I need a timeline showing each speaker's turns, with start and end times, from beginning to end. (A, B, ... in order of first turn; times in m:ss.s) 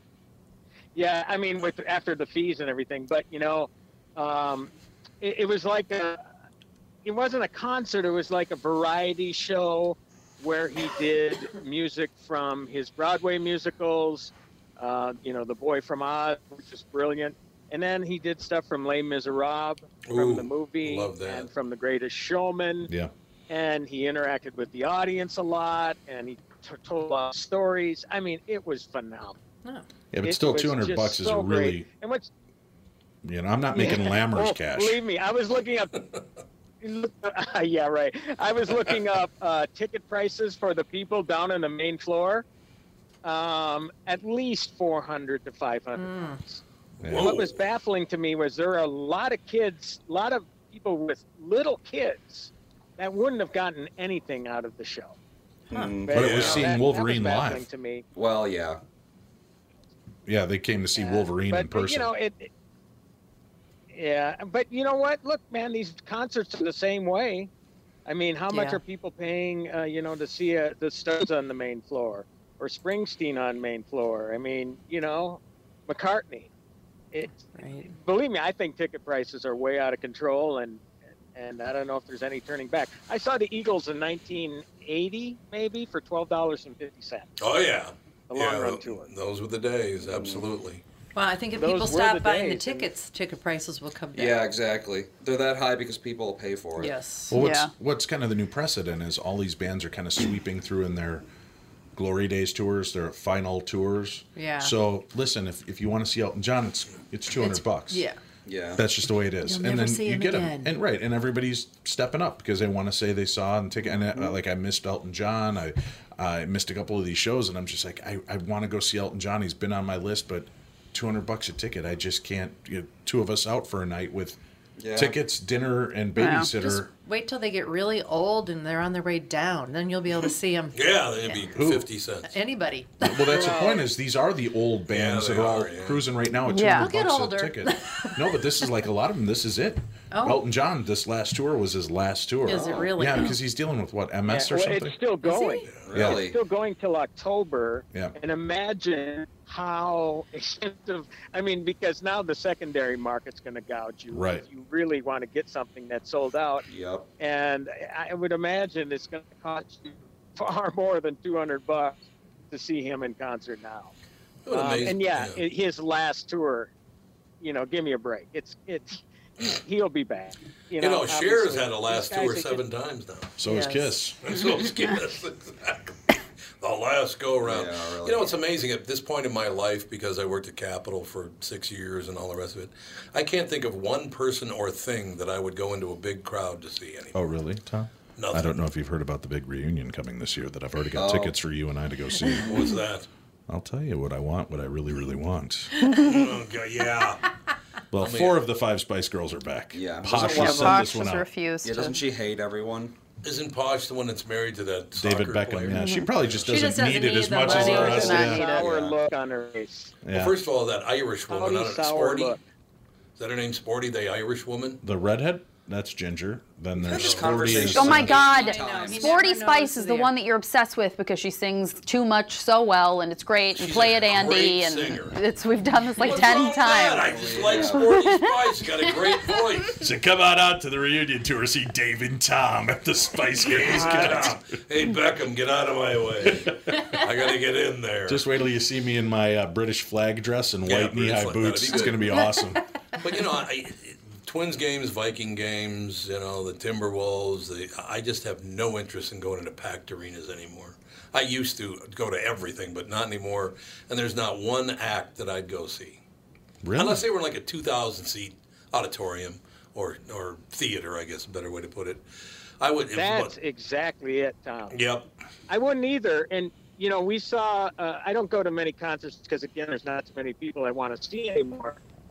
0:01.0-0:06.2 A
0:07.0-0:22.9 A
0:20.1-0:21.5 B
0:22.9-0:23.1 C
0:23.5-0:29.4 A
0:30.1-0:31.9 C
0:30.2-0:32.3 A
0:33.2-0:35.0 C
0:33.9-0:36.1 A
0:36.8-0:42.4 A
0:43.2-0:46.6 A
0:46.0-0:46.4 D
0:47.0-0:47.4 C
0:47.0-0:47.6 B
0:47.1-0:55.2 A
0:55.7-0:56.5 E
0:56.0-0:58.0 A
0:56.1-0:57.6 C
0:56.2-0:56.7 B
0:58.2-0:58.8 E
1:00.3-1:02.1 C
1:01.0-1:02.5 A
1:03.9-1:07.5 A
1:08.1-1:16.5 A
1:08.5-1:08.8 D
1:17.1-1:27.3 A
1:17.5-1:17.9 D
1:27.4-1:30.8 B
1:28.3-1:29.1 A
1:30.0-1:30.4 E
1:31.2-1:34.4 D
1:31.5-1:32.9 A
1:34.2-1:37.0 E
1:36.8-1:37.4 D
1:37.3-1:41.2 C
1:37.3-1:37.7 F
1:42.0-1:48.1 C
1:44.4-1:44.7 D
1:47.4-1:48.2 D
1:48.5-1:48.8 E
1:48.8-2:04.4 C
1:49.4-1:50.8 D
2:04.8-2:05.2 E
2:05.0-2:06.9 C
2:06.2-2:06.5 F
2:06.6-2:11.4 D
2:10.8-2:12.4 B
2:11.6-2:11.9 C
2:12.2-2:13.5 D
2:13.0-2:25.0 C
2:13.3-2:13.8 A
2:14.9-2:16.1 B
2:16.5-2:16.9 F
2:16.7-2:18.3 D
2:20.1-2:20.4 D
2:22.5-2:23.4 D
2:22.5-2:22.9 E
2:24.3-2:36.6 A
2:25.2-2:25.7 D
2:25.9-2:26.4 E
2:25.9-2:26.3 C
2:34.1-2:34.4 C
2:36.7-2:37.1 E
2:37.2-2:43.9 A
2:44.5-2:45.4 B
2:44.5-2:46.7 A
2:47.4-2:52.6 A
2:50.8-2:53.4 B
2:53.4-2:54.2 C
2:53.4-2:53.9 D
2:54.2-3:07.2 B
2:57.4-2:58.3 E
3:07.1-3:12.7 C
3:08.2-3:08.6 B
3:11.0-3:11.4 E
3:12.4-3:13.1 B
3:13.5-3:15.7 C
3:15.8-3:17.3 B
3:17.9-3:21.3 C
3:18.0-3:18.4 B
3:19.7-3:21.0 E
3:20.2-3:22.0 F
3:21.6-3:23.0 E
3:23.2-3:26.5 B
3:25.0-3:28.5 C
3:25.7-3:26.1 F
3:26.5-3:28.4 D
3:27.4-3:29.9 A
3:27.8-3:28.7 F
3:28.6-3:29.0 E
3:30.0-3:30.4 C
3:30.1-3:32.4 B
3:31.3-3:32.4 A
3:33.2-3:34.8 B
3:34.8-3:38.2 C
3:36.8-3:39.2 E
3:36.9-3:37.7 B
3:37.6-3:48.5 F
3:38.0-3:40.2 D
3:43.6-3:45.2 B
3:46.0-3:49.8 B
3:47.0-3:47.9 E
3:49.8-3:54.4 C
3:53.4-3:58.2 B
3:56.3-3:56.9 C
3:58.1-4:02.6 C
4:00.6-4:02.1 B
4:03.0-4:16.0 B
4:16.6-4:17.0 C
4:16.8-4:22.0 B
4:22.6-4:23.3 B
4:22.9-4:24.8 A
4:24.7-4:25.1 B
4:25.5-4:31.8 A